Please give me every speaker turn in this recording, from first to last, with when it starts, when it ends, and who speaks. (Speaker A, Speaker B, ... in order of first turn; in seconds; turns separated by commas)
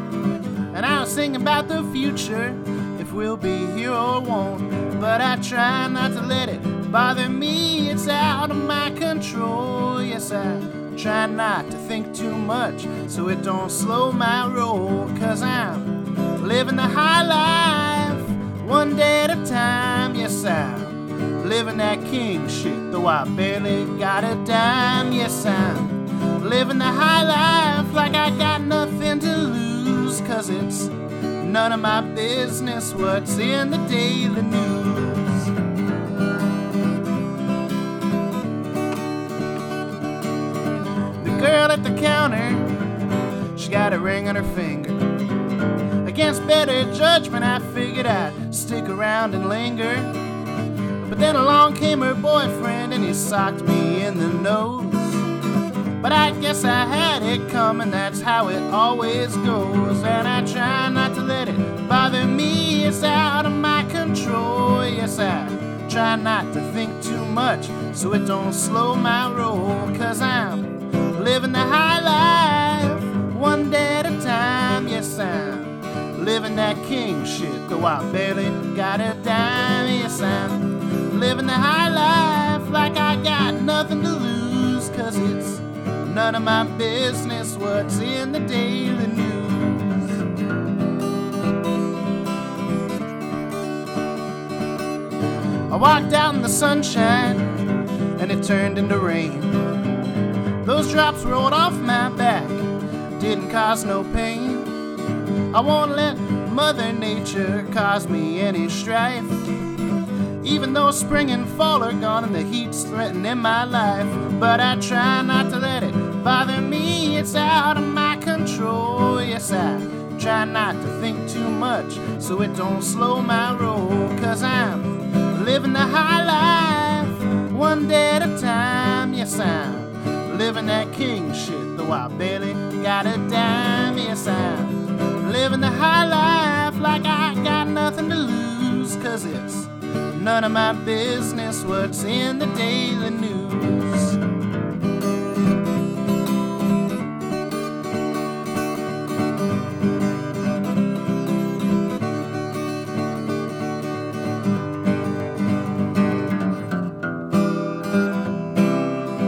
Speaker A: 0.7-35.5, Speaker A: 41.2-42.8, Speaker A: 43.5-45.1, Speaker A: 46.0-50.2, Speaker A: 51.0-55.3, Speaker A: 56.0-90.1, Speaker A: 95.7-97.6, Speaker A: 98.2-99.7, Speaker A: 100.6-104.7, Speaker A: 105.5-109.5, Speaker A: 110.4-144.2